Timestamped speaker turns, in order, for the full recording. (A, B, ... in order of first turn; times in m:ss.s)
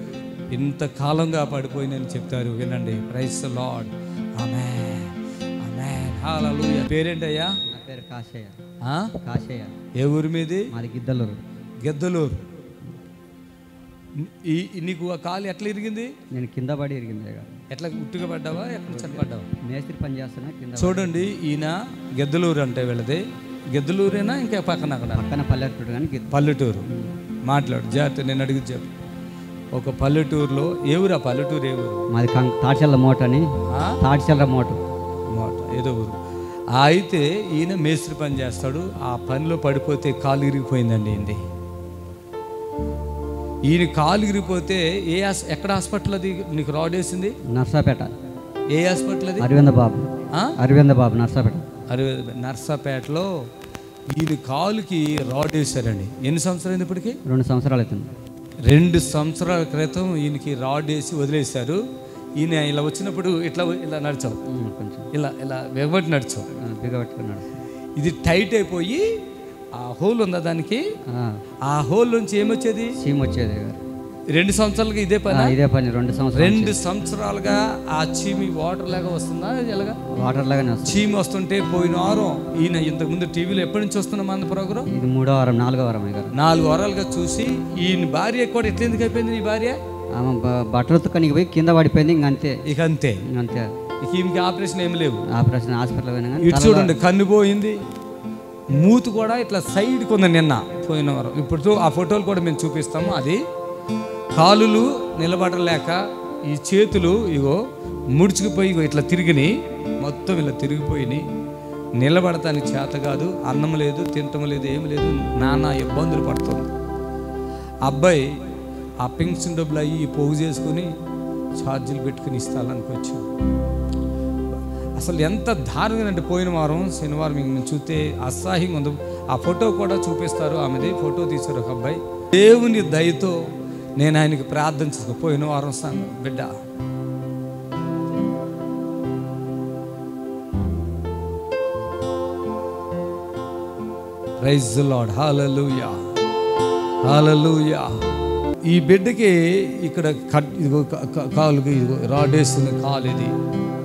0:00.5-0:07.5 A
0:07.7-0:08.6 B
0:08.8-0:09.1 A
0:09.2-0:09.7 B
0:10.0-0:10.7 A
0:10.7-0:11.4 B
0:11.8-0:12.4 A
0:14.2-0:16.1 A
0:16.3-0:17.5 B
0:17.7-0:19.5 A
0:18.9-0:21.3 B
0:20.8-0:25.2 A
0:25.1-0:26.3 B
0:26.3-0:26.9 A
0:26.9-0:27.1 B
0:27.4-0:28.9 A
0:29.7-0:32.1 A
0:32.1-0:33.5 B
0:33.7-0:34.0 A
0:34.0-0:34.8 B
0:35.3-0:36.2 A
0:36.7-0:41.4 A
0:43.7-0:47.4 A
0:47.5-0:48.1 B
0:48.7-0:49.5 A
0:49.4-0:51.6 B
0:51.9-0:53.3 A
0:54.1-0:57.2 A
0:57.2-0:58.1 B
0:58.7-1:01.8 A
1:02.4-1:04.4 A
1:04.5-1:05.1 B
1:05.1-1:06.5 A
1:06.6-1:07.5 B
1:08.0-1:09.0 A
1:09.8-1:10.8 A
1:11.1-1:11.4 B
1:11.6-1:13.0 A
1:13.0-1:13.8 B
1:14.3-1:15.6 A
1:15.3-1:16.8 B
1:16.4-1:20.0 A
1:20.2-1:21.0 B
1:20.8-1:24.9 A
1:24.9-1:26.3 B
1:26.3-1:29.8 A
1:30.2-1:32.6 B
1:32.6-1:33.2 A
1:33.3-1:33.7 B
1:34.0-1:35.2 A
1:35.3-1:37.0 B
1:36.4-1:37.8 A
1:38.7-1:43.4 A
1:44.3-1:47.6 A
1:48.1-1:51.2 A
1:52.0-1:56.7 A
1:57.8-1:58.3 A
1:59.0-2:00.9 A
2:01.6-2:03.3 A
2:05.0-2:13.4 A
2:14.0-2:16.6 A
2:24.4-2:26.0 A
2:27.0-2:28.1 A
2:28.7-2:33.3 A